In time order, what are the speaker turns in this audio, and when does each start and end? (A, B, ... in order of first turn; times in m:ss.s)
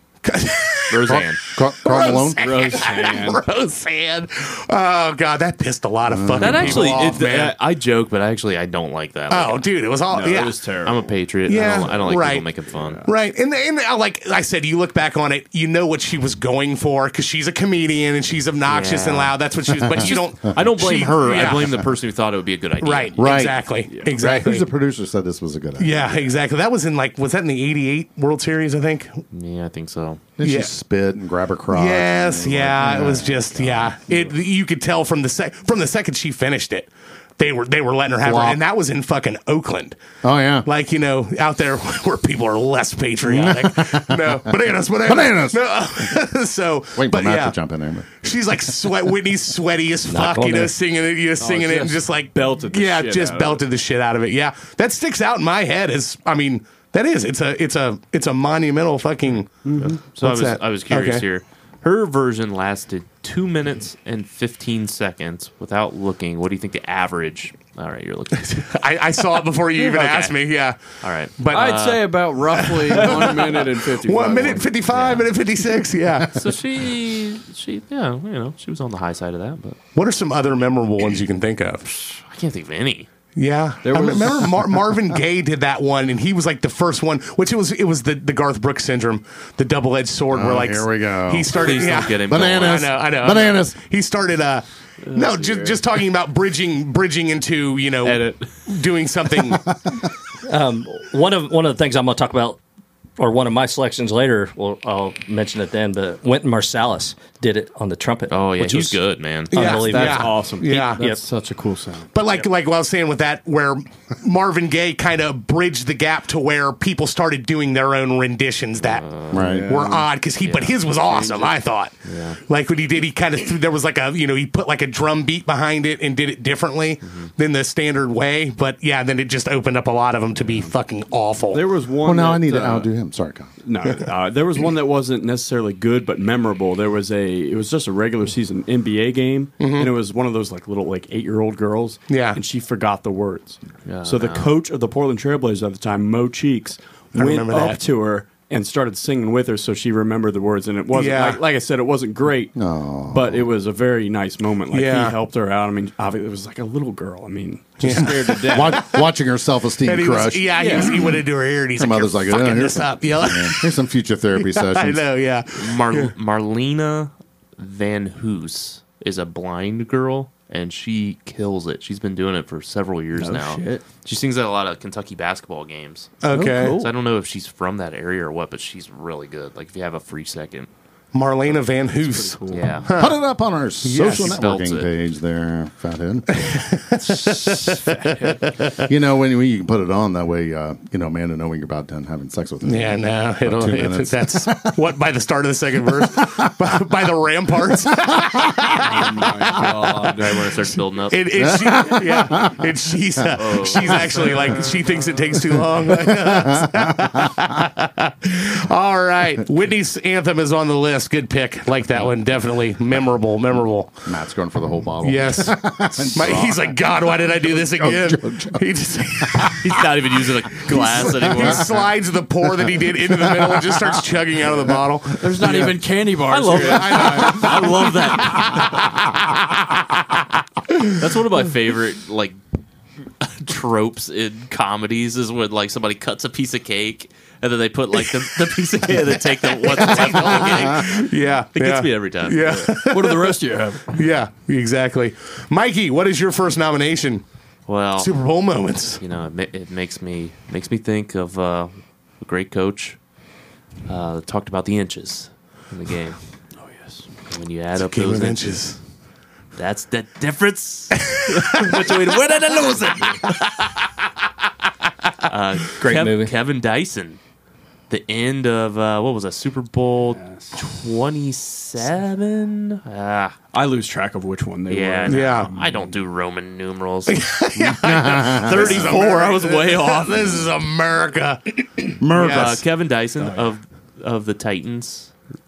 0:00.2-0:01.2 A
0:00.9-0:01.4 B
0:01.1-0:02.8 C
0:01.8-0:07.5 A
0:02.4-0:03.4 D
0:06.1-0:07.2 C
0:06.4-0:09.6 B
0:09.3-0:10.6 A
0:10.1-0:11.1 D
0:10.8-0:13.0 B
0:11.5-0:12.5 A
0:12.1-0:13.1 D
0:13.0-0:21.8 A
0:18.7-0:23.2 B
0:19.8-0:21.9 C
0:22.8-0:24.7 A
0:23.2-0:26.2 C
0:25.8-0:29.2 A
0:29.3-0:30.2 B
0:30.4-0:34.0 C
0:30.4-0:30.7 A
0:31.7-0:40.0 A
0:38.2-0:38.6 C
0:40.2-0:40.7 C
0:40.6-0:47.6 A
0:43.2-0:44.5 C
0:45.0-0:46.1 C
0:47.0-0:48.1 C
0:48.2-0:59.6 A
0:50.1-0:50.7 E
0:51.4-0:53.6 D
0:59.6-1:00.0 D
0:59.8-1:08.7 B
1:00.2-1:01.2 A
1:08.4-1:10.8 A
1:09.8-1:10.4 B
1:11.0-1:13.3 B
1:11.4-1:11.9 A
1:11.5-1:14.8 D
1:12.6-1:16.4 A
1:14.3-1:15.3 B
1:16.3-1:19.8 B
1:20.0-1:21.8 A
1:21.8-1:23.1 B
1:23.4-1:39.7 A
1:23.8-1:24.7 D
1:30.3-1:33.8 C
1:31.5-1:33.0 B
1:35.1-1:35.8 D
1:38.0-1:38.5 D
1:40.5-1:42.6 E
1:43.2-1:51.2 E
1:48.3-1:49.6 B
1:49.5-1:51.0 A
1:49.6-1:52.1 D
1:52.1-2:11.6 A
1:58.8-1:59.5 B
1:59.3-2:00.0 C
1:59.4-2:00.0 D
2:00.4-2:01.3 B
2:01.1-2:01.5 D
2:02.0-2:02.4 B
2:07.0-2:07.3 B
2:11.5-2:12.9 D
2:12.0-2:13.5 C
2:13.6-2:32.6 D
2:19.6-2:19.9 A
2:22.1-2:22.4 A
2:23.9-2:24.5 B
2:27.2-2:27.8 A
2:30.9-2:31.4 A
2:32.6-2:33.4 C
2:33.1-2:38.8 D
2:34.7-2:35.2 A
2:37.8-2:39.0 A
2:38.4-2:41.2 C
2:39.8-2:43.7 A
2:40.6-2:41.1 D
2:41.7-2:45.0 C
2:44.4-2:46.1 A
2:45.6-3:00.7 B
2:53.2-2:53.8 D
2:56.2-2:56.8 A
2:56.3-2:56.9 D
3:01.1-3:03.2 A
3:02.0-3:02.9 D
3:02.5-3:02.9 B
3:02.9-3:06.6 C
3:03.8-3:04.3 A
3:04.0-3:04.9 B
3:06.4-3:08.8 A
3:07.0-3:08.4 D
3:08.8-3:14.8 C
3:12.7-3:19.5 A
3:16.0-3:16.5 C
3:18.8-3:20.5 D
3:20.0-3:21.4 B
3:21.1-3:34.0 A
3:21.4-3:22.7 C
3:23.4-3:24.7 B
3:25.9-3:27.4 C
3:34.1-3:38.6 C
3:35.0-3:39.7 A
3:36.2-3:36.5 B
3:39.2-3:39.6 C
3:39.6-3:41.8 B
3:40.7-3:45.8 A
3:42.6-3:44.8 C
3:45.2-3:47.6 D
3:46.2-3:48.9 B
3:46.5-3:49.1 A
3:50.9-3:52.4 B
3:53.2-4:02.8 B
3:58.9-4:03.4 A
4:02.8-4:04.1 D
4:03.9-4:07.2 A
4:07.7-4:08.1 B
4:08.0-4:09.0 A
4:09.0-4:13.0 B
4:13.9-4:16.2 B
4:16.6-4:17.1 D
4:17.3-4:18.7 B
4:17.8-4:18.8 A
4:19.6-4:23.7 B
4:21.0-4:21.7 A
4:22.8-4:23.2 D
4:25.2-4:27.2 B
4:25.8-4:26.3 E
4:27.9-4:33.4 B
4:30.1-4:30.6 D
4:33.5-4:36.0 D
4:34.7-4:37.2 B
4:35.1-4:35.5 A
4:37.1-4:42.6 A
4:37.6-4:39.0 C
4:38.3-4:40.3 B
4:42.0-4:42.6 C
4:42.2-4:45.1 B
4:43.2-4:43.5 D